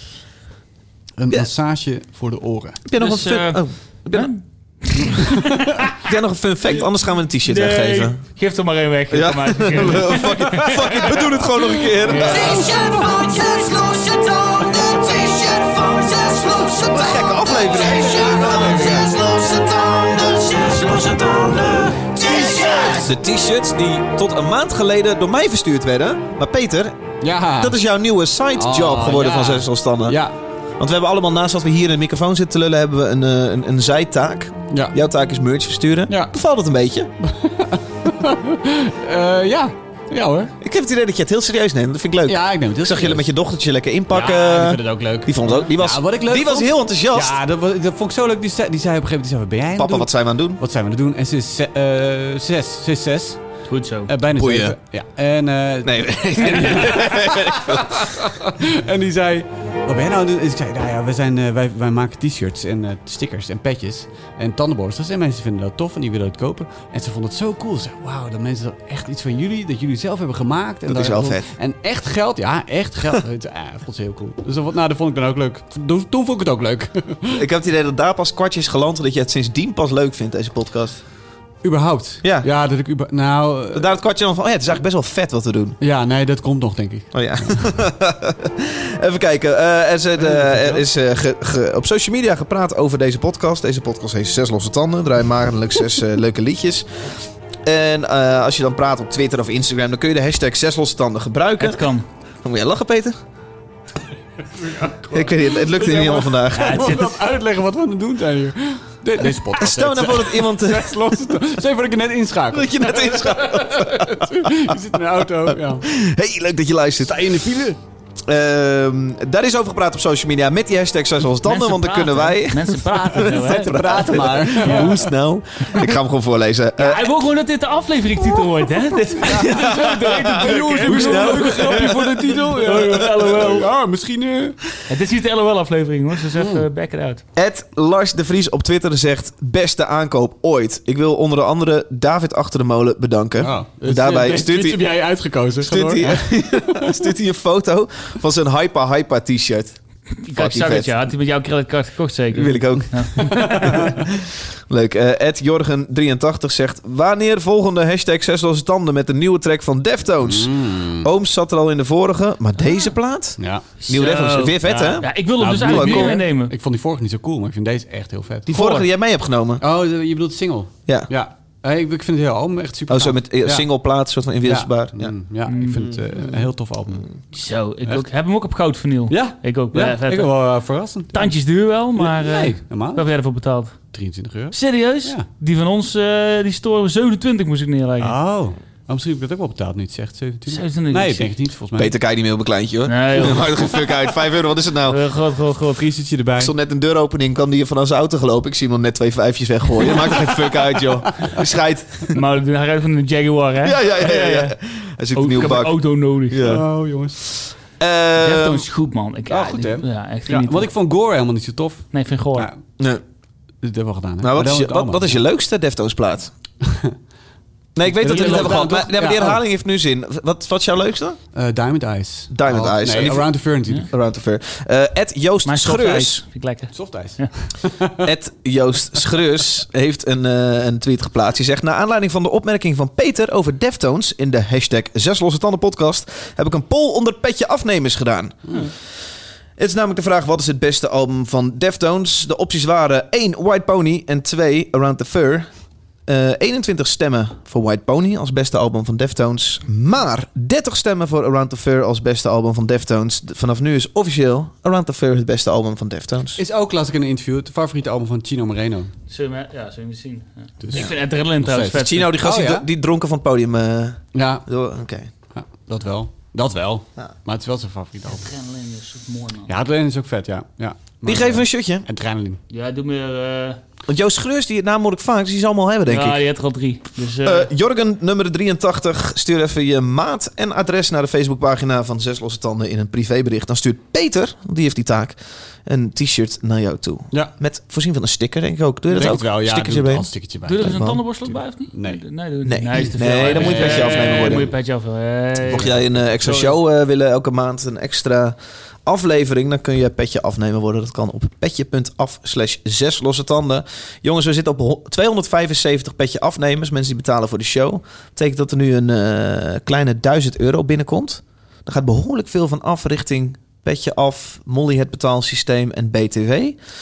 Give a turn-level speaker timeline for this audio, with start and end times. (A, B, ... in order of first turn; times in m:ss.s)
0:01.2-0:02.8 A
0:02.8-0:04.3 B
0:03.0-0:06.0 C
0:06.0-0:08.2 B
0:07.4-0:11.2 C
0:09.1-0:12.7 B
0:10.2-0:11.2 A
0:12.0-0:12.7 C
0:12.1-0:12.8 A
0:12.3-0:20.9 D
0:16.7-0:18.9 B
0:18.1-0:19.1 A
0:20.6-0:27.0 B
0:22.2-0:23.0 D
0:27.2-0:27.8 A
0:27.6-0:30.2 B
0:28.5-0:30.3 A
0:30.8-0:37.1 B
0:34.7-0:35.0 A
0:36.1-0:36.3 A
0:37.2-0:40.5 A
0:40.6-0:47.4 B
0:42.2-0:43.3 A
0:44.1-0:53.4 A
0:49.7-0:50.6 B
0:53.7-0:54.1 C
0:54.1-1:17.4 A
0:54.4-0:54.8 B
0:55.8-0:58.1 B
1:10.9-1:11.5 B
1:17.3-1:21.0 B
1:21.6-1:23.9 A
1:22.2-1:22.5 B
1:23.7-1:25.8 B
1:25.8-1:27.6 A
1:27.1-1:37.1 B
1:30.2-1:30.8 A
1:37.6-1:41.8 B
1:41.6-1:42.0 C
1:42.4-1:43.2 B
1:44.5-1:55.9 A
1:45.0-1:47.0 B
1:46.5-1:47.2 C
1:49.3-1:51.4 B
1:52.5-1:57.3 B
1:57.0-1:57.8 A
1:58.2-2:07.1 B
2:01.4-2:03.7 C
2:03.5-2:05.0 A
2:06.8-2:13.7 C
2:09.2-2:14.6 A
2:09.2-2:13.6 B
2:14.9-2:17.2 C
2:16.3-2:16.6 A
2:17.3-2:24.9 B
2:23.4-2:27.0 A
2:25.6-2:29.8 B
2:30.2-2:33.8 C
2:30.3-2:31.0 B
2:32.3-2:46.2 B
2:33.2-2:34.0 A
2:40.2-2:41.1 A
2:43.4-2:43.6 A
2:43.8-2:46.5 C
2:45.4-2:48.5 A
2:48.5-2:49.6 B
2:48.5-2:48.8 C
2:49.6-2:53.7 A
2:52.9-2:55.1 B
2:54.4-2:57.1 A
2:55.4-2:55.8 C
2:57.3-3:00.4 C
2:59.1-3:01.3 A
3:01.1-3:03.8 C
3:02.0-3:03.0 A
3:03.9-3:05.3 A
3:04.5-3:08.2 C
3:08.0-3:11.9 A
3:10.5-3:11.3 C
3:11.8-3:15.0 B
3:12.8-3:14.0 C
3:14.9-3:15.8 C
3:15.7-3:16.5 A
3:16.4-3:22.2 B
3:22.1-3:24.6 C
3:23.6-3:25.8 B
3:25.1-3:26.5 C
3:26.3-3:26.6 B
3:26.4-3:27.2 A
3:27.8-3:28.6 B
3:28.2-3:30.7 C
3:29.3-3:32.6 A
3:31.9-3:32.5 C
3:33.6-3:35.2 A
3:34.2-3:36.3 B
3:36.6-3:36.9 A
3:37.7-3:41.2 B
3:37.9-3:39.4 A
3:38.0-3:38.6 C
3:41.3-3:43.9 A
3:42.3-3:46.2 B
3:45.4-3:47.3 C
3:46.7-3:48.0 A
3:48.0-3:58.6 B
3:59.6-4:05.5 B
4:06.1-4:16.4 B
4:16.4-4:18.9 A
4:19.1-4:22.1 C
4:20.6-4:22.6 A
4:21.7-4:25.1 B
4:24.1-4:24.4 A
4:25.3-4:28.3 A
4:28.1-4:29.5 C
4:29.5-4:32.4 A
4:31.0-4:31.8 B
4:32.5-4:33.6 C
4:33.9-4:36.2 B
4:35.9-4:37.5 C
4:37.2-4:50.1 B
4:48.9-4:52.0 A
4:50.4-4:56.5 C
4:52.4-4:54.5 B
4:52.8-4:54.5 A
4:55.4-4:56.0 A
4:55.4-5:16.6 B